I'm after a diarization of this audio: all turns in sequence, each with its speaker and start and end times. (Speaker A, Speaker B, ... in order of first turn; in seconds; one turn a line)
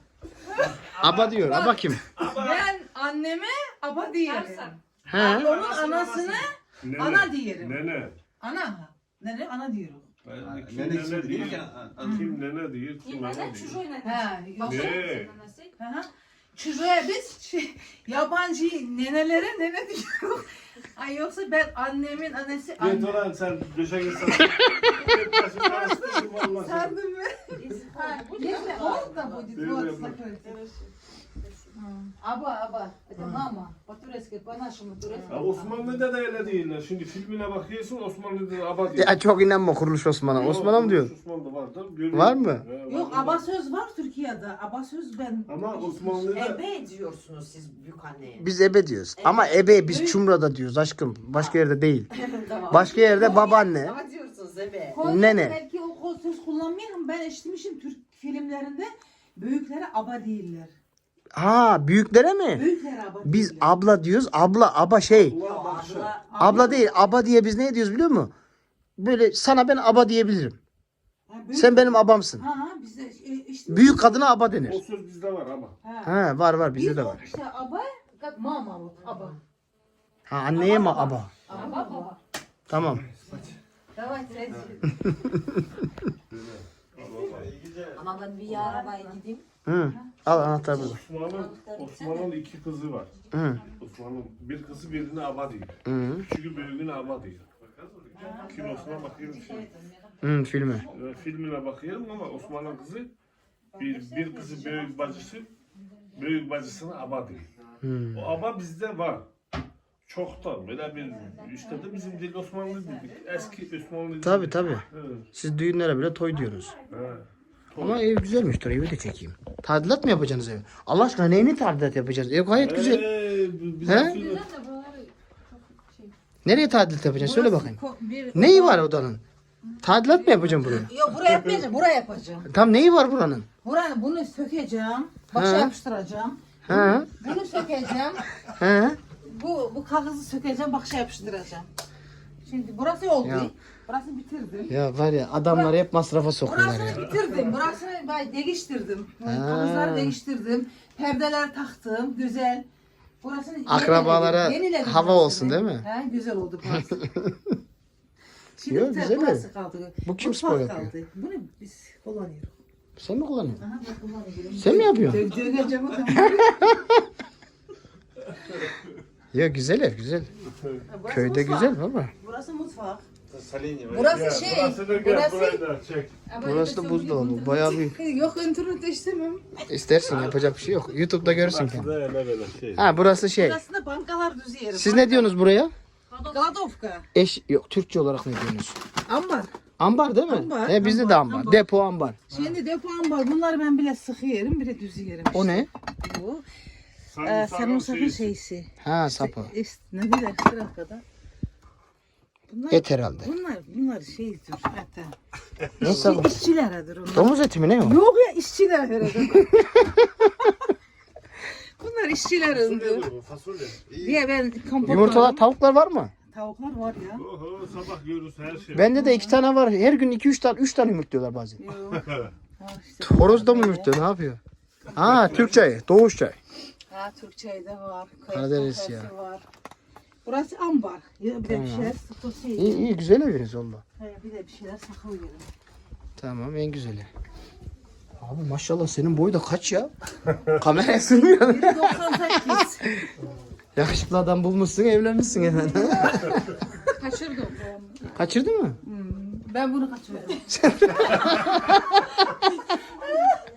Speaker A: 0.6-1.4
Speaker B: 1.0-2.0
Speaker C: 1.4-7.8
Speaker A: 2.1-2.6
Speaker D: 4.2-4.7
Speaker B: 5.0-5.5
Speaker A: 5.3-8.1
Speaker C: 8.4-10.1
Speaker A: 10.2-13.8
Speaker E: 10.5-12.2
Speaker C: 12.0-12.4
Speaker D: 13.0-15.7
Speaker C: 14.0-15.0
Speaker A: 14.6-15.4
Speaker C: 15.8-23.3
Speaker A: 22.8-27.0
Speaker C: 25.1-30.6
Speaker D: 27.5-29.4
Speaker A: 29.5-30.2
Speaker D: 30.4-30.9
Speaker C: 31.7-36.0
Speaker A: 35.3-39.2
Speaker B: 38.9-41.1
Speaker A: 40.3-43.5
Speaker B: 42.1-42.6
Speaker C: 42.9-46.5
Speaker A: 45.5-46.6
Speaker D: 46.3-48.4
Speaker B: 48.4-52.1
Speaker D: 49.2-49.7
Speaker C: 49.8-50.2
Speaker D: 52.1-55.1
Speaker B: 52.7-54.0
Speaker C: 53.1-53.5
Speaker C: 54.9-60.7
Speaker B: 55.0-55.6
Speaker B: 61.3-62.6
Speaker C: 62.5-63.7
Speaker B: 63.2-65.4
Speaker A: 65.1-66.2
Speaker D: 65.4-66.2
Speaker C: 66.2-66.9
Speaker B: 66.4-68.3
Speaker B: 69.0-70.6
Speaker C: 71.3-74.3
Speaker B: 71.5-72.4
Speaker B: 73.7-74.8
Speaker A: 74.6-75.8
Speaker C: 75.8-76.1
Speaker B: 76.0-77.2
Speaker C: 76.7-79.4
Speaker B: 80.3-81.3
Speaker C: 80.5-82.2
Speaker D: 81.5-82.1
Speaker B: 82.7-83.0
Speaker C: 83.3-85.0
Speaker B: 85.0-85.6
Speaker A: 86.3-87.6
Speaker E: 87.6-88.0
Speaker D: 87.9-89.4
Speaker C: 88.5-89.2
Speaker B: 89.7-91.0
Speaker C: 89.9-90.8
Speaker D: 90.7-92.3
Speaker A: 90.8-93.1
Speaker B: 93.3-93.6
Speaker A: 93.8-95.7
Speaker B: 95.8-96.3
Speaker A: 96.3-99.7
Speaker C: 98.2-100.0
Speaker B: 100.2-100.9
Speaker C: 100.6-101.0
Speaker A: 100.8-103.1
Speaker C: 103.7-105.2
Speaker A: 103.8-105.5
Speaker A: 106.1-107.5
Speaker B: 107.8-108.3
Speaker A: 108.1-109.3
Speaker A: 110.0-115.3
Speaker C: 111.4-111.8
Speaker B: 114.2-116.8
Speaker A: 116.9-118.0
Speaker B: 117.8-123.1
Speaker A: 122.6-124.5
Speaker B: 123.8-124.2
Speaker C: 123.9-124.4
Speaker D: 124.2-126.1
Speaker B: 126.4-127.8
Speaker C: 127.2-129.0
Speaker B: 128.3-129.2
Speaker C: 129.6-132.5
Speaker B: 129.8-130.9
Speaker B: 132.5-133.5
Speaker C: 133.6-138.2
Speaker B: 135.3-135.7
Speaker B: 136.7-137.1
Speaker B: 138.5-139.0
Speaker C: 139.2-141.7
Speaker C: 142.4-144.7
Speaker B: 143.2-143.5
Speaker B: 144.7-147.1
Speaker C: 145.4-145.7
Speaker C: 146.4-152.6
Speaker B: 149.2-150.2
Speaker C: 153.2-157.0
Speaker B: 153.7-155.9
Speaker B: 156.9-157.6
Speaker C: 158.6-162.5
Speaker B: 158.7-159.4
Speaker B: 160.0-160.9
Speaker B: 163.0-163.6
Speaker C: 163.6-166.7
Speaker B: 164.5-165.3
Speaker B: 166.1-167.0
Speaker B: 169.3-170.3
Speaker C: 170.9-173.0
Speaker B: 171.1-172.1
Speaker A: 173.3-176.2
Speaker C: 173.9-175.6
Speaker C: 176.3-179.6
Speaker B: 176.3-178.0
Speaker B: 179.7-181.9
Speaker A: 180.1-180.5
Speaker A: 181.2-182.9
Speaker B: 182.8-183.6
Speaker C: 183.3-185.3
Speaker B: 184.7-185.7
Speaker D: 186.1-186.4
Speaker C: 186.3-187.1
Speaker B: 187.1-188.8
Speaker C: 189.1-189.5
Speaker B: 189.8-192.2
Speaker C: 190.3-191.7
Speaker C: 192.3-196.4
Speaker B: 195.3-195.7
Speaker A: 197.1-198.3
Speaker C: 197.2-201.0
Speaker B: 198.8-199.5
Speaker C: 202.5-205.1
Speaker B: 202.7-203.3
Speaker B: 205.8-206.4
Speaker C: 205.8-209.7
Speaker B: 207.1-208.0
Speaker B: 209.4-210.5
Speaker C: 211.5-213.1
Speaker A: 212.5-213.9
Speaker C: 213.9-215.4
Speaker B: 214.8-216.1
Speaker A: 214.9-215.2
Speaker C: 216.3-217.2
Speaker A: 217.2-218.9
Speaker C: 218.7-219.3
Speaker B: 218.7-221.6
Speaker C: 221.6-223.9
Speaker B: 223.0-224.4
Speaker B: 224.9-226.4
Speaker A: 225.0-225.6
Speaker C: 226.9-229.4
Speaker B: 228.3-229.1
Speaker C: 230.2-232.8
Speaker B: 231.5-231.9
Speaker B: 232.6-233.8
Speaker C: 234.0-235.5
Speaker B: 236.2-237.1
Speaker B: 238.2-243.1
Speaker C: 241.4-242.8
Speaker B: 243.8-246.6
Speaker C: 245.4-248.1
Speaker B: 248.1-248.8
Speaker C: 248.8-250.5
Speaker B: 250.5-252.0
Speaker C: 251.0-251.3
Speaker C: 252.2-253.3